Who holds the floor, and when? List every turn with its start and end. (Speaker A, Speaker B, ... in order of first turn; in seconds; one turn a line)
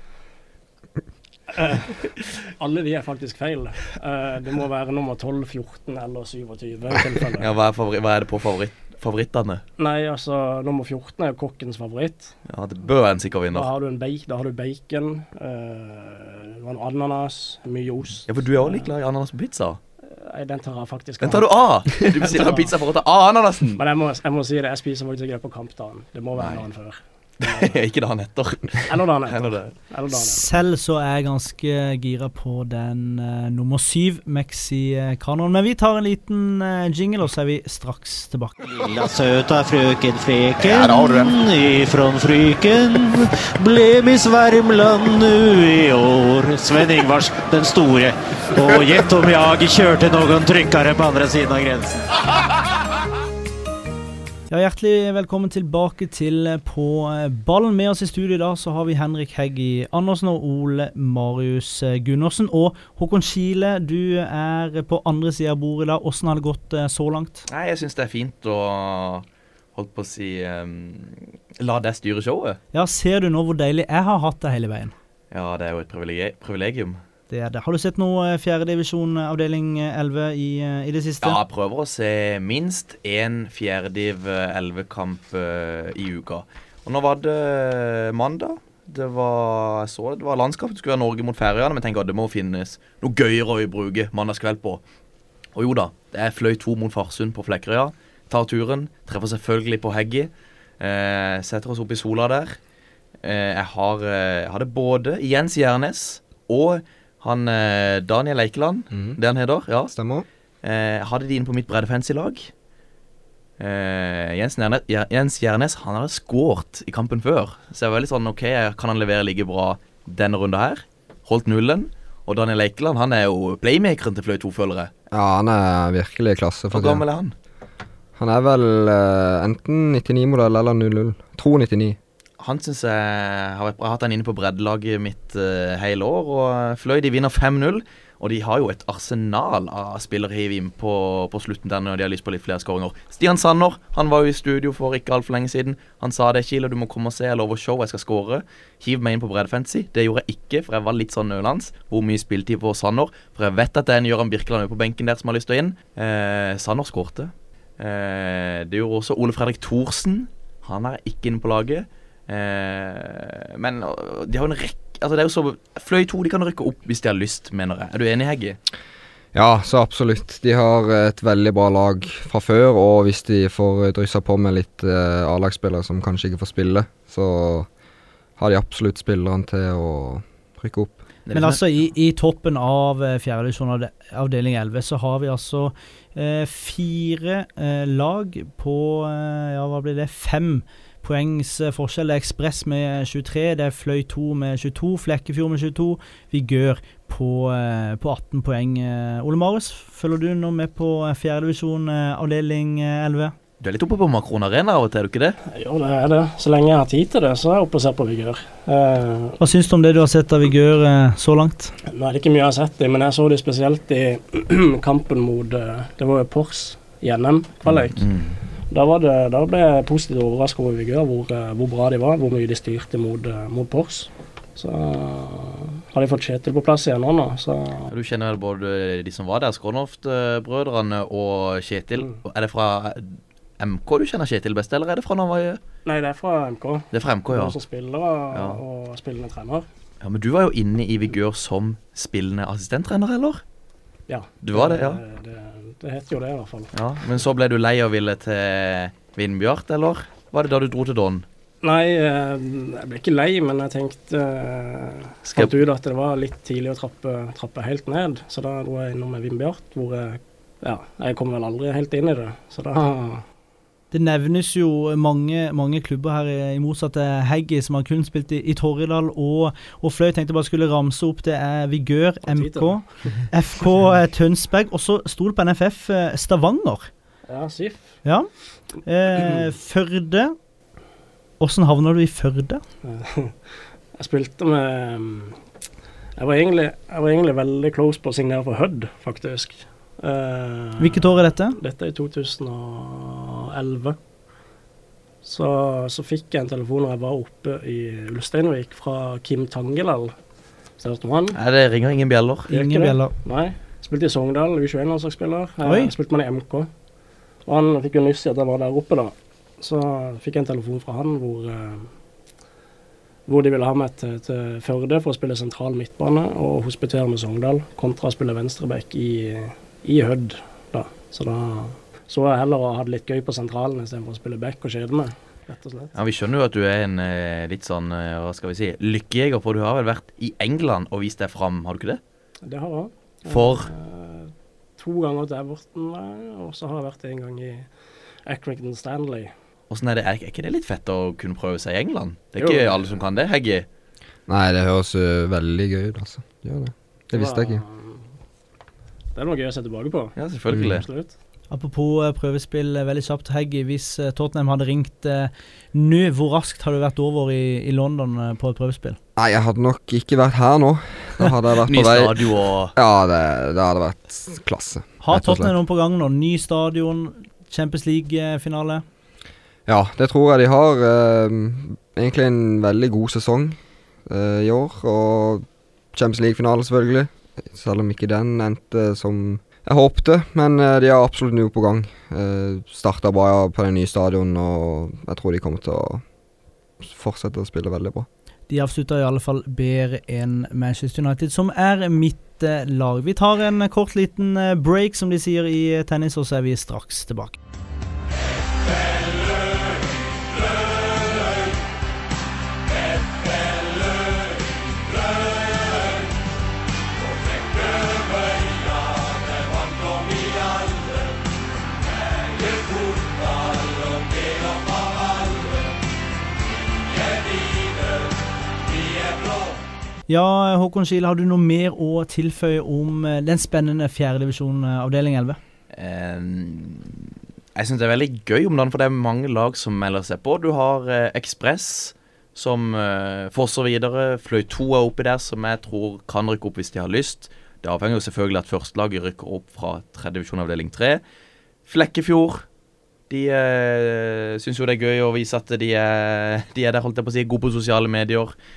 Speaker A: 1.5-7.5
Speaker B: 7.4-9.6
Speaker A: 9.8-12.3
Speaker B: 12.5-13.7
Speaker A: 13.5-18.9
Speaker B: 18.3-19.8
Speaker A: 20.0-22.7
Speaker B: 21.2-23.8
Speaker A: 23.8-27.7
Speaker B: 26.4-26.6
Speaker B: 27.4-29.6
Speaker A: 28.9-30.5
Speaker C: 30.1-38.6
Speaker D: 38.8-52.1
Speaker C: 54.5-67.5
Speaker B: 67.5-72.6
Speaker C: 72.7-74.9
Speaker B: 75.3-77.0
Speaker C: 77.3-81.4
Speaker B: 81.2-94.8
Speaker B: 95.5-102.6
Speaker B: 103.2-109.9
Speaker E: 108.9-109.2
Speaker E: 109.9-110.2
Speaker B: 110.6-112.5
Speaker B: 113.6-124.9
Speaker E: 125.1-127.0
Speaker B: 126.7-127.3
Speaker E: 128.2-132.0
Speaker B: 132.4-168.6
Speaker E: 169.3-177.7
Speaker E: 178.4-181.0
Speaker B: 181.2-181.6
Speaker C: 181.3-203.3
Speaker B: 203.6-205.4
Speaker A: 205.5-209.4
Speaker C: 209.4-211.7
Speaker A: 211.9-218.1
Speaker B: 217.9-218.4
Speaker A: 218.7-227.9
Speaker B: 227.9-235.6
Speaker A: 235.8-239.7
Speaker B: 236.9-237.6
Speaker B: 238.3-238.6
Speaker B: 240.0-243.4
Speaker A: 244.1-246.7
Speaker B: 244.4-245.0
Speaker B: 246.7-251.2
Speaker A: 251.6-263.2
Speaker C: 263.9-276.9
Speaker A: 272.3-273.2
Speaker A: 277.3-278.0
Speaker C: 278.0-280.3
Speaker C: 281.4-282.6
Speaker A: 282.8-283.4
Speaker A: 283.9-285.4
Speaker A: 286.2-294.0
Speaker C: 290.8-291.6
Speaker A: 295.2-300.1
Speaker A: 300.8-301.4
Speaker B: 301.3-302.5
Speaker A: 302.5-306.7
Speaker C: 302.5-303.1
Speaker C: 305.6-305.9
Speaker A: 307.4-311.9
Speaker A: 313.2-325.9
Speaker B: 325.9-332.0
Speaker A: 332.4-337.7
Speaker B: 333.3-333.7
Speaker A: 338.2-339.3
Speaker B: 339.7-343.6
Speaker A: 342.4-342.9
Speaker E: 344.3-347.6
Speaker A: 347.1-348.0
Speaker A: 349.1-351.1
Speaker B: 350.2-350.8
Speaker C: 351.5-359.0
Speaker E: 359.1-365.5
Speaker B: 361.7-362.7
Speaker C: 365.0-368.8
Speaker E: 369.7-386.0
Speaker E: 386.8-388.1
Speaker C: 388.5-397.4
Speaker C: 420.1-425.4
Speaker B: 425.7-441.0
Speaker B: 441.6-442.4
Speaker B: 443.1-448.3